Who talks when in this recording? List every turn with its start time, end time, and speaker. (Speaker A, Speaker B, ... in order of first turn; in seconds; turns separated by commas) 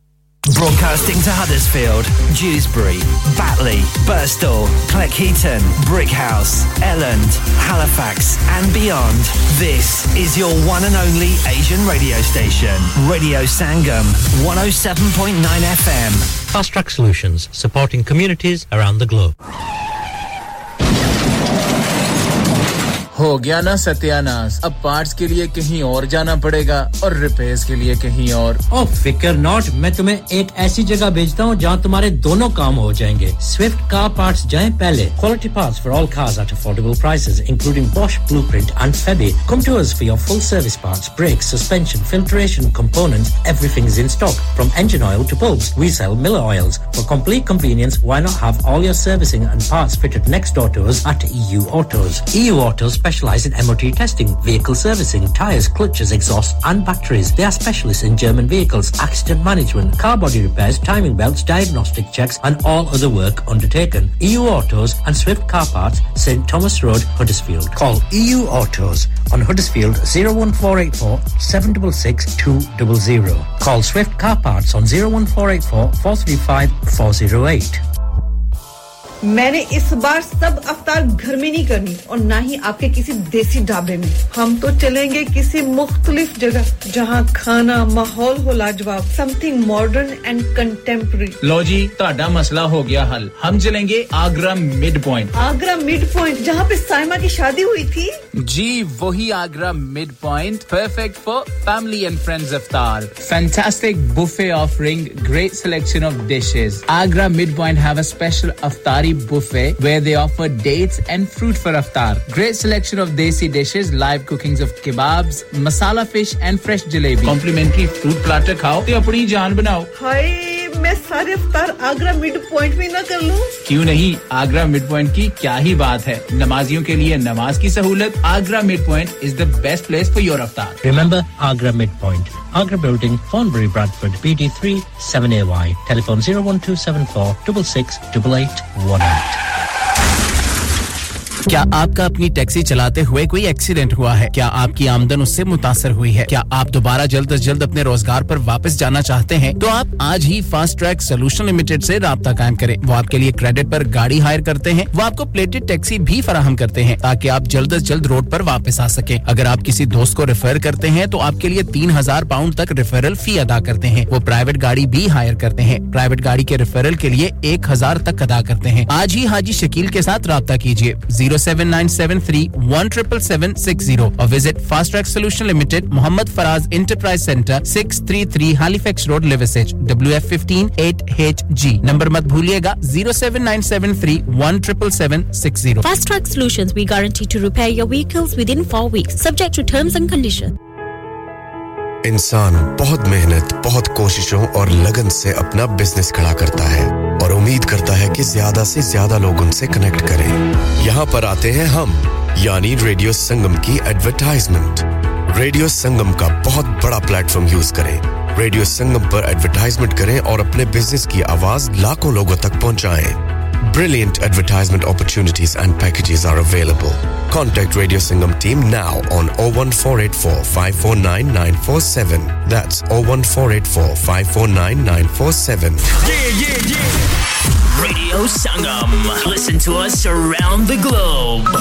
Speaker A: 0.5-16.3, Speaker B: 16.5-19.3, Speaker C: 23.1-28.6, Speaker B: 28.7-77.8, Speaker D: 79.2-91.4, Speaker C: 91.4-95.3, Speaker D: 95.3-98.2, Speaker C: 98.4-119.9, Speaker D: 119.9-123.5, Speaker C: 123.7-130.8, Speaker B: 130.8-139.4, Speaker C: 141.5-185.8, Speaker E: 185.8-190.5, Speaker F: 192.0-225.9, Speaker G: 227.8-230.0, Speaker G: 230.7-231.4